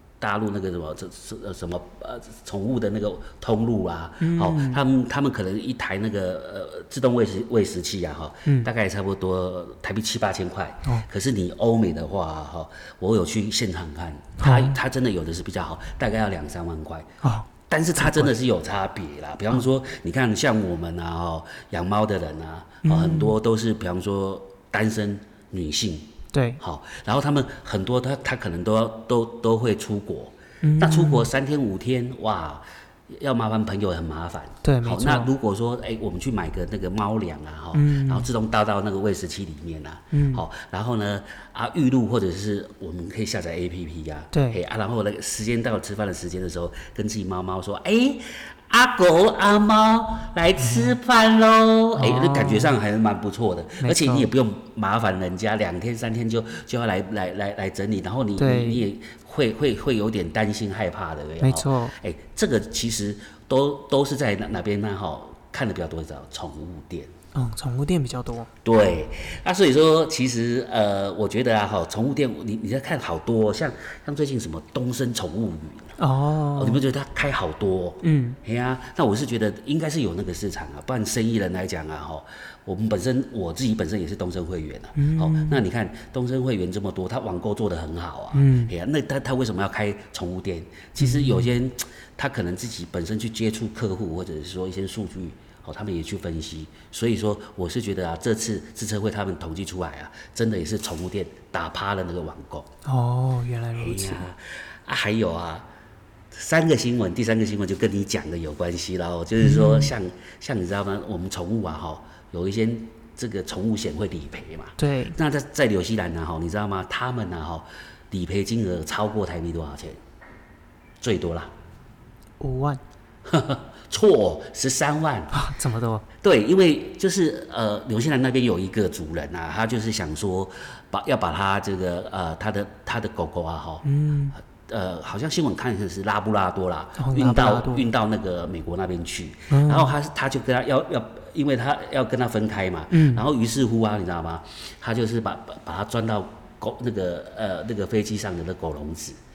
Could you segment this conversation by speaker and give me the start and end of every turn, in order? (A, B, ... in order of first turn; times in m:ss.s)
0:00.2-0:17.1 A
0:04.2-0:04.8 B
0:14.4-0:14.8 B
0:17.2-0:18.3 B
0:17.7-1:07.1 A
0:22.8-0:23.3 B
0:26.3-0:26.6 B
0:30.6-0:31.3 B
0:34.6-0:35.3 B
0:37.7-0:38.3 B
0:40.1-0:40.4 B
0:44.3-0:44.6 B
0:52.0-0:52.7 B
0:53.8-0:54.3 B
0:58.4-0:58.8 B
1:01.4-1:01.9 B
1:07.3-1:08.5 B
1:08.6-1:16.0 A
1:16.0-1:16.8 B
1:16.6-1:42.7 A
1:18.0-1:18.4 B
1:24.9-1:25.6 B
1:28.3-1:28.7 B
1:31.0-1:31.5 B
1:42.8-1:44.2 B
1:43.8-1:45.6 A
1:46.3-2:00.0 A
1:49.4-1:49.9 B
1:54.8-1:55.2 B
2:01.0-2:01.5 A
2:02.4-2:02.8 B
2:03.2-2:05.3 A
2:05.3-2:06.0 B
2:06.2-2:13.8 A
2:13.8-2:14.4 B
2:14.4-2:29.2 A
2:17.0-2:17.8 B
2:19.5-2:19.9 B
2:22.9-2:23.2 B